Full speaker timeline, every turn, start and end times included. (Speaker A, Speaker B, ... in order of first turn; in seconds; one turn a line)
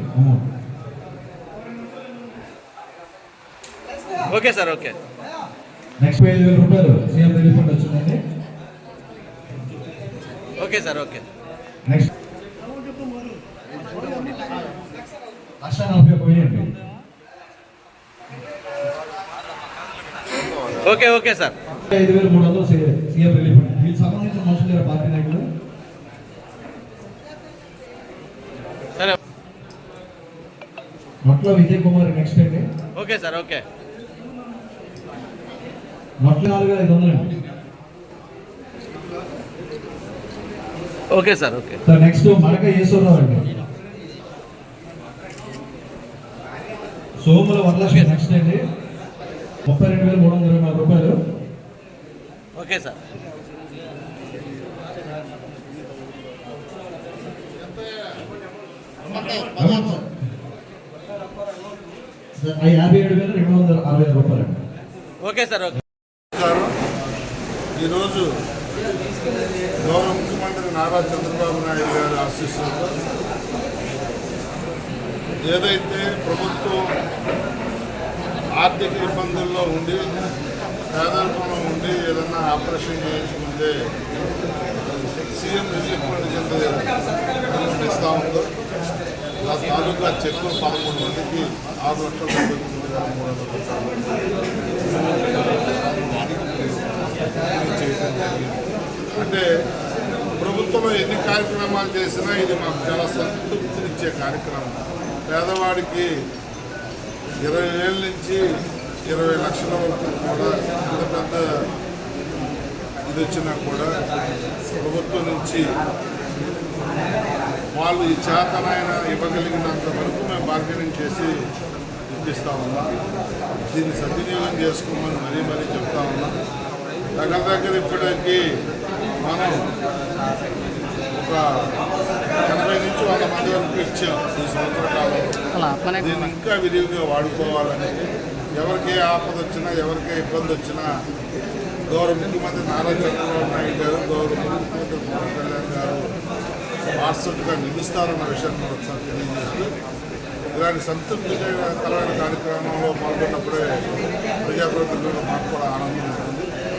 Speaker A: 0.2-0.4
Speaker B: 4.3-5.0
Speaker A: 6.0-8.2
Speaker B: 10.6-11.2
Speaker A: 15.6-16.8
Speaker B: 20.8-21.6
Speaker A: 21.9-25.5
Speaker A: 31.2-32.7
Speaker B: 33.0-33.6
Speaker A: 36.2-37.3
Speaker B: 41.1-41.8
Speaker A: 41.9-43.5
Speaker A: 47.2-48.6
Speaker A: 49.7-51.2
Speaker B: 52.6-53.0
Speaker C: 57.7-58.0
Speaker A: 59.5-60.1
Speaker A: 62.4-64.6
Speaker B: 65.2-65.8
Speaker C: 66.3-66.7
Speaker C: 67.8-68.3
Speaker C: 69.8-72.9
Speaker C: 75.5-76.8
Speaker C: 78.5-80.2
Speaker C: 80.9-83.8
Speaker C: 84.9-88.5
Speaker C: 89.4-94.1
Speaker C: 95.0-98.6
Speaker C: 99.2-99.5
Speaker C: 100.4-106.1
Speaker C: 107.5-108.4
Speaker C: 109.1-111.5
Speaker C: 113.1-113.9
Speaker C: 114.8-115.7
Speaker C: 117.7-121.3
Speaker C: 122.1-122.9
Speaker C: 123.7-126.3
Speaker C: 127.2-128.4
Speaker C: 129.2-129.6
Speaker C: 131.2-131.4
Speaker C: 132.4-135.4
Speaker C: 136.0-138.0
Speaker C: 138.6-140.9
Speaker C: 141.9-146.0
Speaker C: 147.0-149.7
Speaker C: 150.5-153.8
Speaker C: 154.4-156.5